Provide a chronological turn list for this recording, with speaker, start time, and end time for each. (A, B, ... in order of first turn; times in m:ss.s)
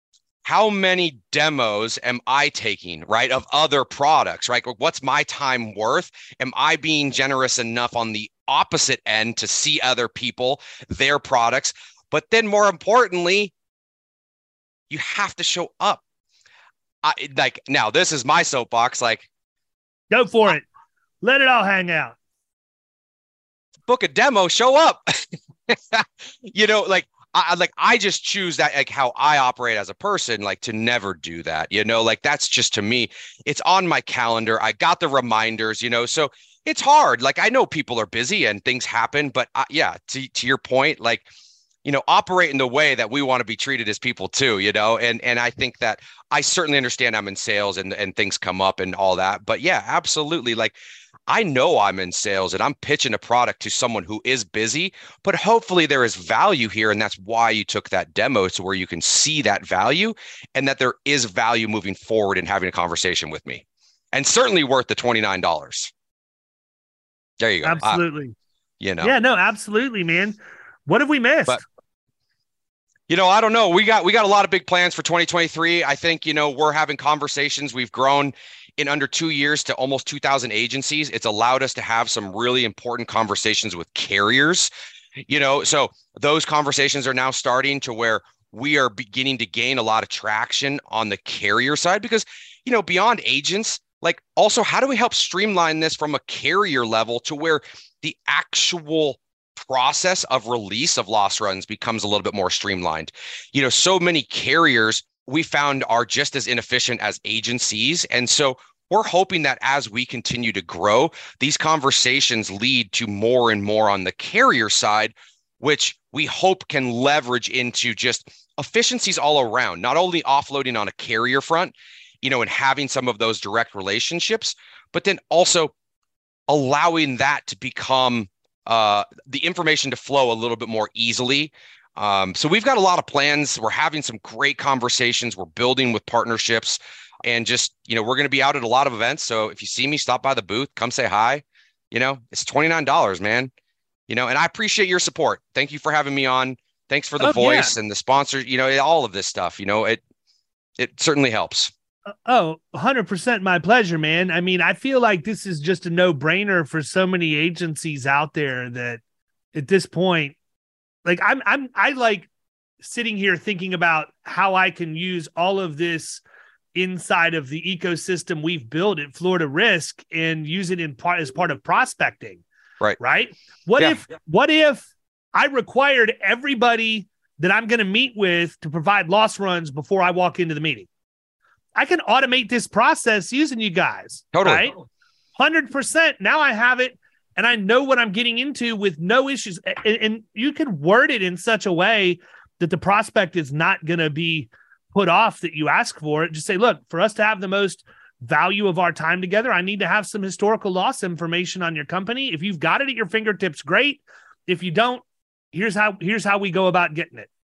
0:00.4-0:13.5 A
0:14.9-0:16.0 A
0:17.0-0:19.3 A
0:20.1-0:20.6 B
0:21.2-0:22.2 B
0:23.9-0:41.3 A
0:41.8-0:50.8 A
0:51.3-1:05.9 A
1:07.4-1:08.0 A
1:07.6-1:08.4 B
1:08.8-1:09.1 A
1:09.0-1:11.6 B
1:13.1-1:24.7 A
1:25.3-2:05.7 A
2:06.5-2:23.5 A
2:24.1-2:30.0 A
2:27.2-2:27.7 B
2:30.8-2:31.7 A
2:32.3-2:39.0 B
2:39.5-2:40.4 B
2:41.0-2:42.3 B
2:42.8-2:46.2 B
2:46.8-2:52.4 B
2:53.0-3:00.9 B
3:01.8-3:04.8 B
3:04.3-3:04.7 A
3:05.4-3:27.3 B